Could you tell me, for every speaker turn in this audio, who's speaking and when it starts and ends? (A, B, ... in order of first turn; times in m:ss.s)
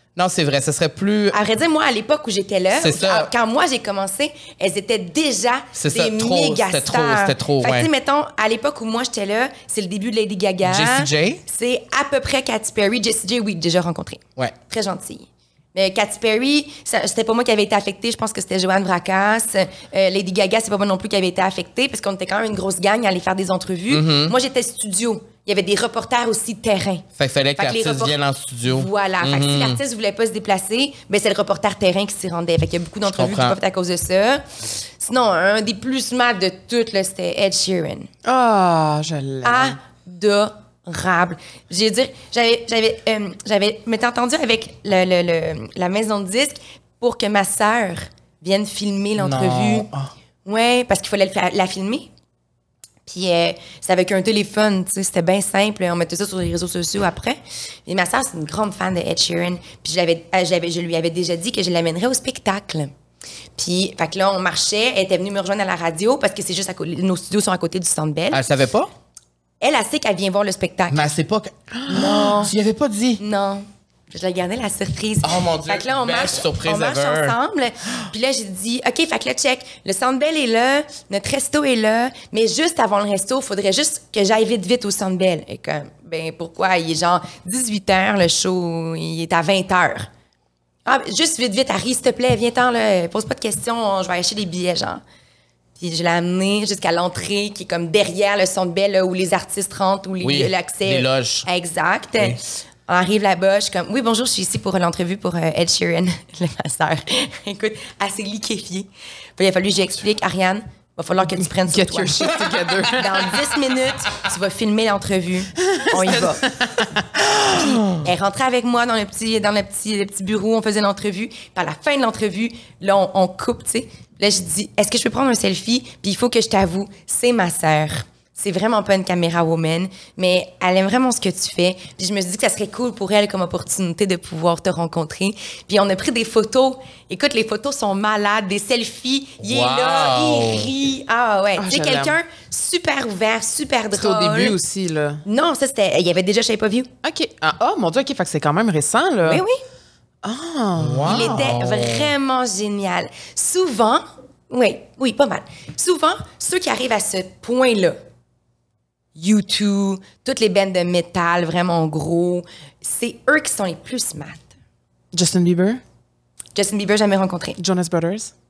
0:00.2-0:01.4 A
0:01.3-0:27.0 B
0:02.7-0:03.3 A
0:05.8-0:07.9 A
0:10.6-0:11.4 A
0:23.9-0:24.4 A
0:27.2-0:29.8 A
0:27.6-0:34.4 B
0:33.0-0:33.6 A
0:35.0-0:38.1 B
0:38.2-0:39.8 C
0:39.4-0:49.9 B
0:49.2-0:50.1 A
0:50.4-0:52.1 B
0:53.1-1:02.9 B
1:03.6-1:08.4 B
1:08.3-1:08.9 A
1:09.6-1:11.0 B
1:10.9-1:13.2 A
1:11.8-1:12.3 C
1:11.9-1:12.5 B
1:13.2-1:30.1 B
1:15.2-1:17.4 A
1:30.9-1:35.0 B
1:35.8-1:56.5 B
1:40.2-1:41.5 A
1:51.4-1:53.4 C
1:55.6-1:57.8 C
1:57.5-2:24.6 B
2:19.4-2:20.7 A
2:21.6-2:22.2 C
2:23.9-2:25.2 C
2:25.3-2:26.9 B
2:27.0-2:29.4 C
2:29.3-2:29.6 B
2:30.2-2:31.5 C
2:30.8-2:32.1 A
2:31.0-2:38.0 B
2:39.2-2:44.4 B
2:45.1-2:45.8 C
2:46.6-2:47.6 B
2:47.6-2:48.3 C